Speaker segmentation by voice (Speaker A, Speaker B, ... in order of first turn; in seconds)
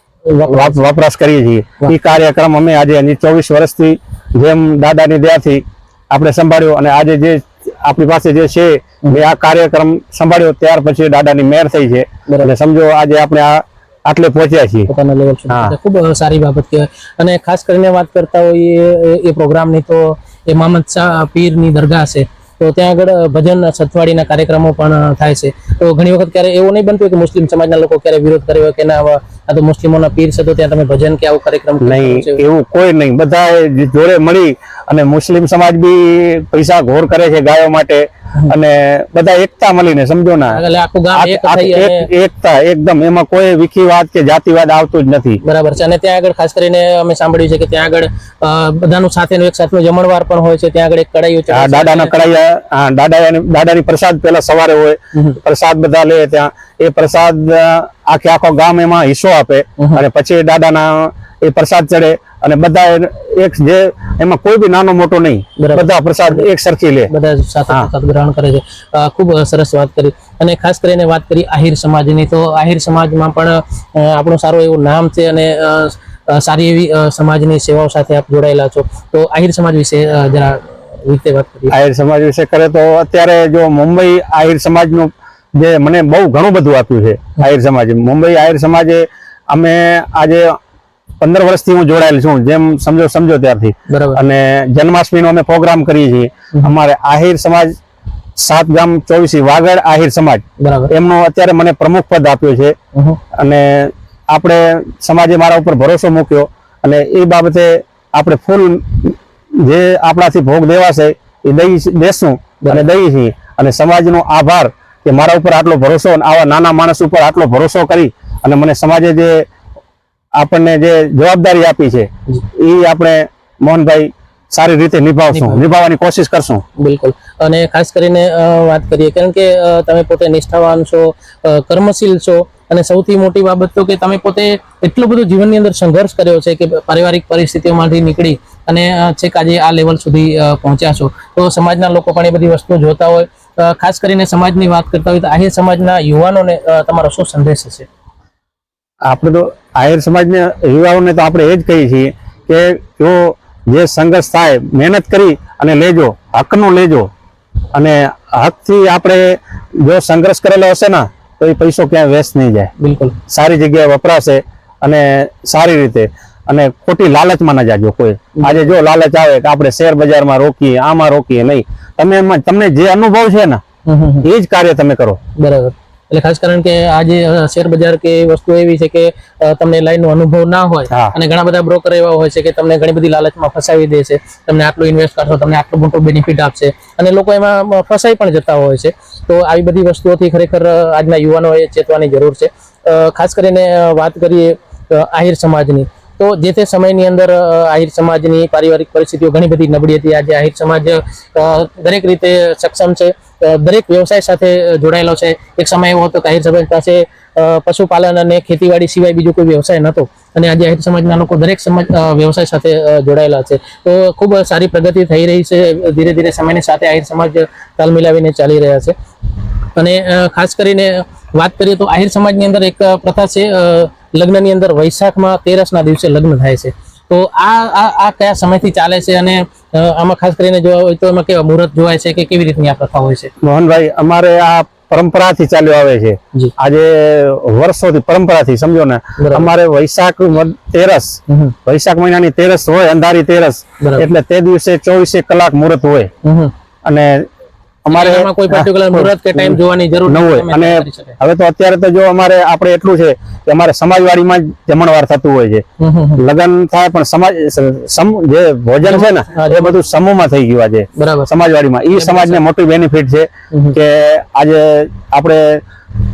Speaker A: 0.3-0.8, 14.9-32.4, 40.5-42.1, 45.4-52.1, 55.1-55.4, 59.8-60.0, 65.6-66.4, 67.1-81.7, 93.9-94.2, 100.6-100.9, 102.9-103.2, 112.6-112.9, 125.3-125.6, 126.8-147.9, 162.8-163.2, 168.3-168.7, 173.8-174.3, 175.4-218.9, 219.8-233.3, 239.2-239.5, 241.3-241.5, 243.8-244.1, 246.2-246.5, 247.9-251.2, 255.8-256.2, 258.8-259.7, 260.9-261.3, 261.9-262.4, 263.5-263.8
Speaker B: 0.5-14.9, 15.5-15.8, 31.8-40.6, 41.1-45.4, 51.5-67.1, 81.7-90.6, 91.2-97.7, 98.3-102.8, 103.3-119.5, 120.4-126.6, 149.1-157.1, 157.7-162.7, 163.3-173.6, 174.2-175.2, 180.9-181.1, 233.4-246.1, 246.8-247.3, 247.8-255.6, 256.2-265.6